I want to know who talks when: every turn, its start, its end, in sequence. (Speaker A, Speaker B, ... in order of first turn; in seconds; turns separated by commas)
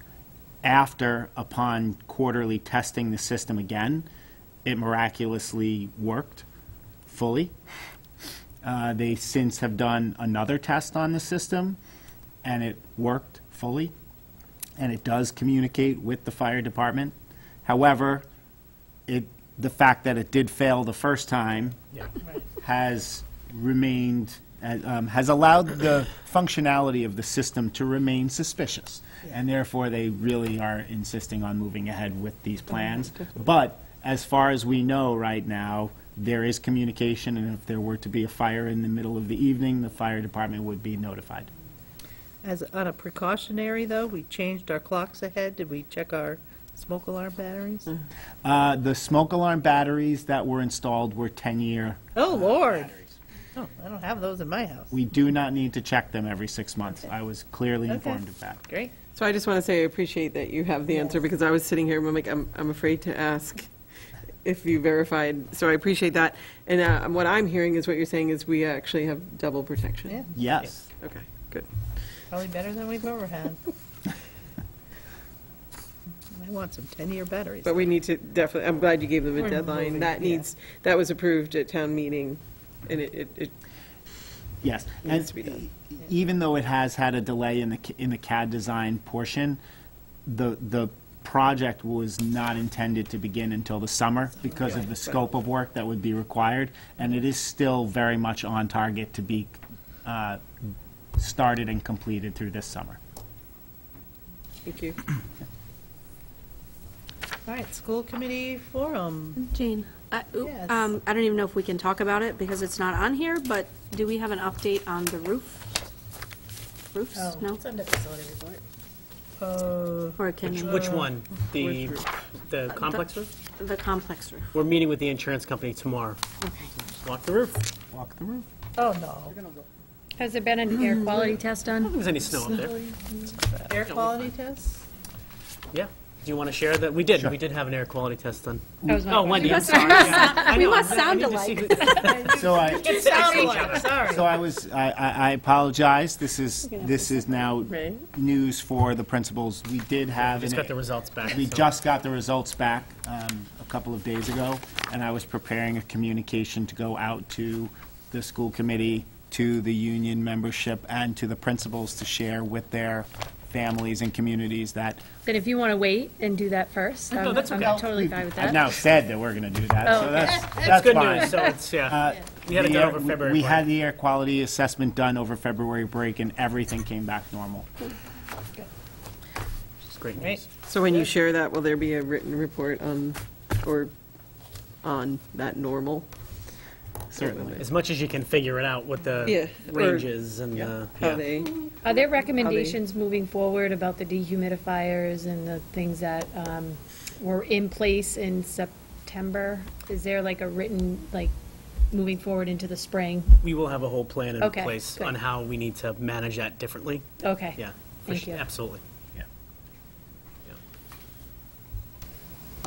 Speaker A: 0.6-4.1, Speaker A: 4.7-6.5, Speaker A: 7.1-7.5, Speaker A: 8.6-11.8, Speaker A: 12.4-13.9, Speaker A: 14.8-17.1, Speaker A: 17.6-18.3, Speaker A: 19.1-21.8, Speaker A: 22.6-41.5, Speaker B: 42.4-47.9, Speaker A: 48.4-53.0, Speaker B: 52.1-53.0, Speaker B: 53.6-54.9, Speaker A: 54.9-58.6, Speaker B: 57.9-59.0, Speaker C: 59.1-63.7, Speaker C: 64.4-70.2, Speaker A: 70.3-70.9, Speaker C: 71.0-71.7, Speaker B: 72.3-73.6, Speaker B: 76.3-78.0, Speaker C: 77.7-83.5, Speaker B: 79.4-80.5, Speaker A: 84.6-89.6, Speaker C: 85.0-85.6, Speaker A: 90.3-100.4, Speaker A: 101.2-103.0, Speaker C: 104.7-105.0, Speaker B: 107.5-109.4, Speaker D: 109.4-115.7, Speaker B: 110.4-111.0, Speaker D: 116.9-118.6, Speaker B: 117.2-118.4, Speaker B: 119.4-121.1, Speaker D: 120.2-120.8, Speaker E: 120.4-123.3, Speaker C: 121.6-122.0, Speaker D: 122.7-123.1, Speaker D: 123.6-124.5, Speaker E: 124.5-126.2, Speaker D: 126.4-126.7, Speaker E: 126.8-127.7, Speaker A: 127.9-128.5, Speaker B: 128.8-129.3, Speaker D: 129.4-129.6, Speaker F: 130.2-132.0, Speaker D: 130.9-131.2, Speaker E: 131.8-132.8, Speaker D: 132.4-133.3, Speaker B: 133.5-134.8, Speaker E: 133.8-134.3, Speaker E: 135.7-144.0, Speaker F: 138.9-140.6, Speaker D: 139.3-142.1, Speaker B: 142.0-144.3, Speaker A: 142.3-150.7, Speaker D: 147.7-148.0, Speaker E: 150.2-151.7, Speaker A: 151.3-165.1, Speaker F: 165.3-168.7, Speaker E: 167.1-167.8, Speaker A: 167.6-177.7, Speaker F: 169.9-170.2, Speaker E: 170.5-173.7, Speaker E: 179.9-180.5, Speaker C: 180.7-183.9, Speaker C: 184.8-186.1, Speaker C: 187.1-187.7, Speaker E: 187.6-191.3, Speaker C: 189.2-191.5, Speaker F: 191.8-201.3, Speaker C: 192.4-192.8, Speaker F: 201.9-203.3, Speaker E: 203.4-208.8, Speaker F: 204.4-205.2, Speaker F: 207.2-208.4